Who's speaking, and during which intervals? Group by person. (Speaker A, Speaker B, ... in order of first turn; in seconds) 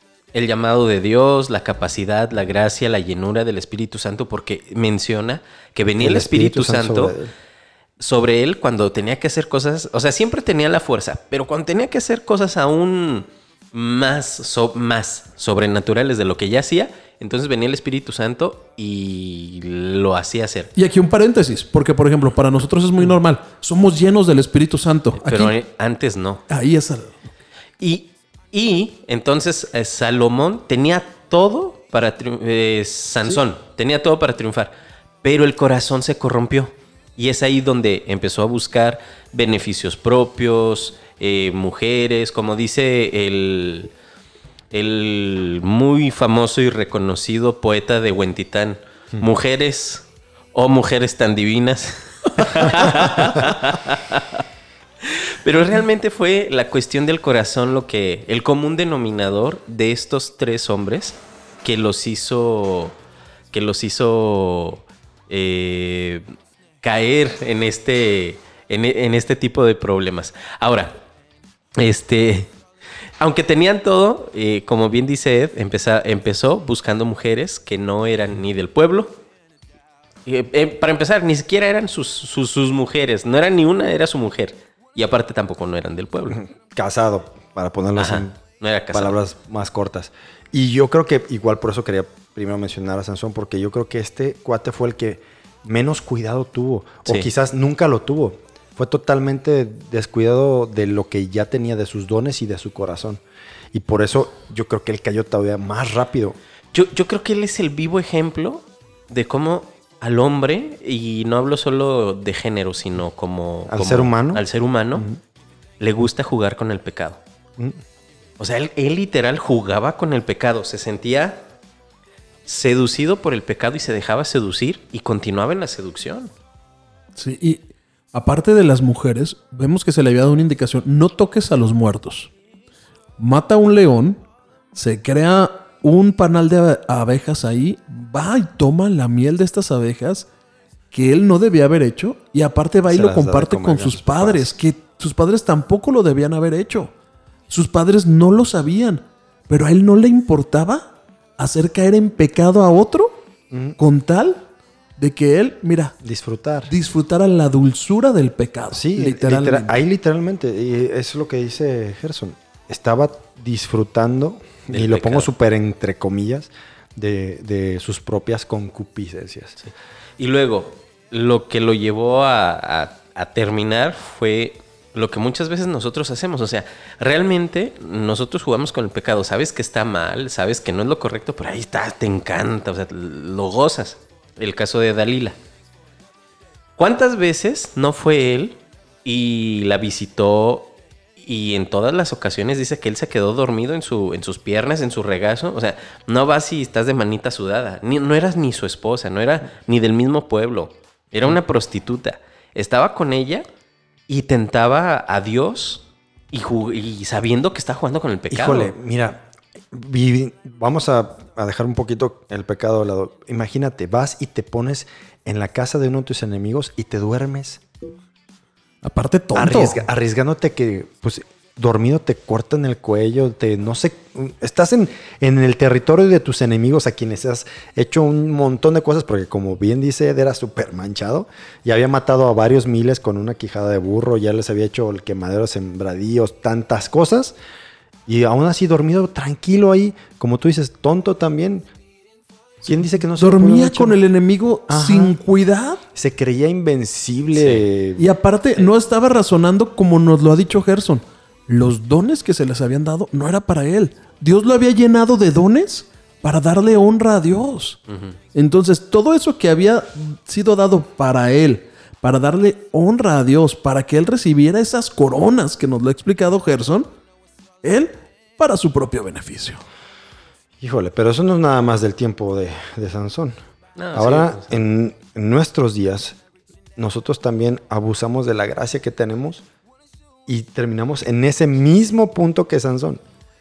Speaker A: 0.3-7.2, 8.0-20.7, 25.2-26.4, 27.8-34.7, 35.2-43.9, 44.7-54.4, 55.0-63.0, 63.5-66.2, 66.8-71.0, 71.8-72.5, 73.2-79.2, 80.3-86.4, 88.0-89.2, 106.7-115.1, 115.8-117.2, 118.4-121.4, 122.5-126.3, 164.7-165.3, 169.6-185.4, 186.8-203.5, 204.1-208.7, 247.3-247.7, 257.9-258.2, 273.8-274.6
Speaker B: 6.0-7.3, 86.3-88.4, 88.9-106.4, 113.7-115.2, 142.9-144.5, 153.5-153.8, 156.0-156.7, 158.7-169.6, 208.3-217.6, 219.3-237.4, 238.1-241.7, 242.6-244.0, 244.7-245.2, 245.9-248.1, 270.6-273.4, 273.9-276.2, 276.8-279.4, 280.3-283.0
Speaker C: 20.8-25.5, 26.5-27.3, 127.2-132.3, 133.2-134.2, 134.7-140.3, 140.9-146.9, 147.5-153.2, 153.8-154.4, 155.0-156.0, 156.7-159.8, 218.8-219.8, 243.2-245.8, 248.0-257.8, 258.3-266.9, 267.6-269.6